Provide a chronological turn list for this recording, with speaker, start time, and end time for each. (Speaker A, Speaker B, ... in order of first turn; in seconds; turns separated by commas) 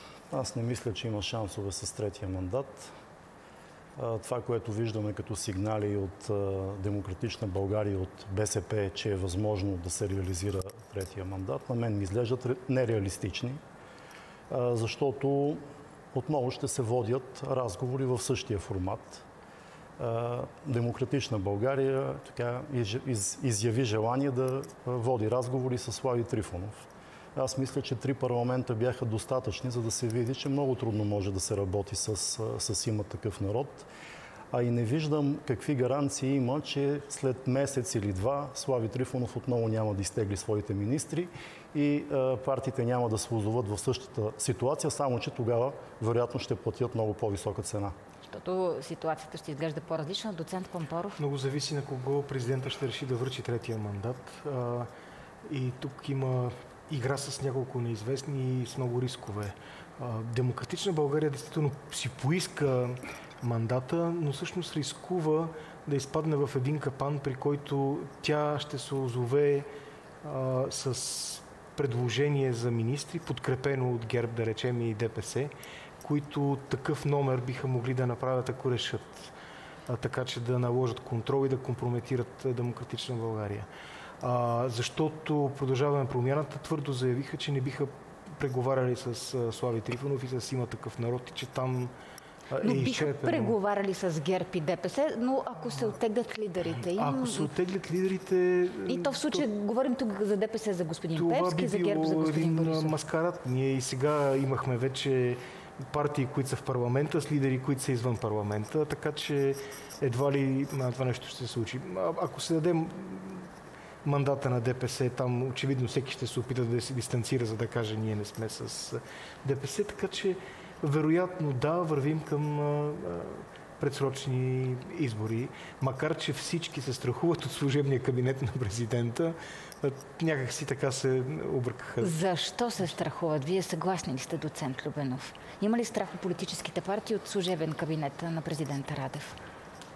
Speaker A: 0.3-2.9, Speaker A: 4.0-13.6, Speaker A: 14.5-15.6, Speaker A: 16.1-19.2, Speaker A: 20.0-33.9, Speaker A: 34.5-47.9, Speaker B: 48.3-51.2, Speaker C: 51.2-54.9, Speaker C: 55.5-69.7, Speaker C: 70.2-79.3, Speaker C: 79.9-83.7, Speaker C: 84.2-91.9, Speaker C: 92.5-93.6, Speaker B: 92.6-97.5, Speaker C: 96.9-99.5, Speaker B: 98.9-103.0, Speaker C: 101.2-113.5, Speaker C: 114.0-132.2, Speaker B: 132.0-139.4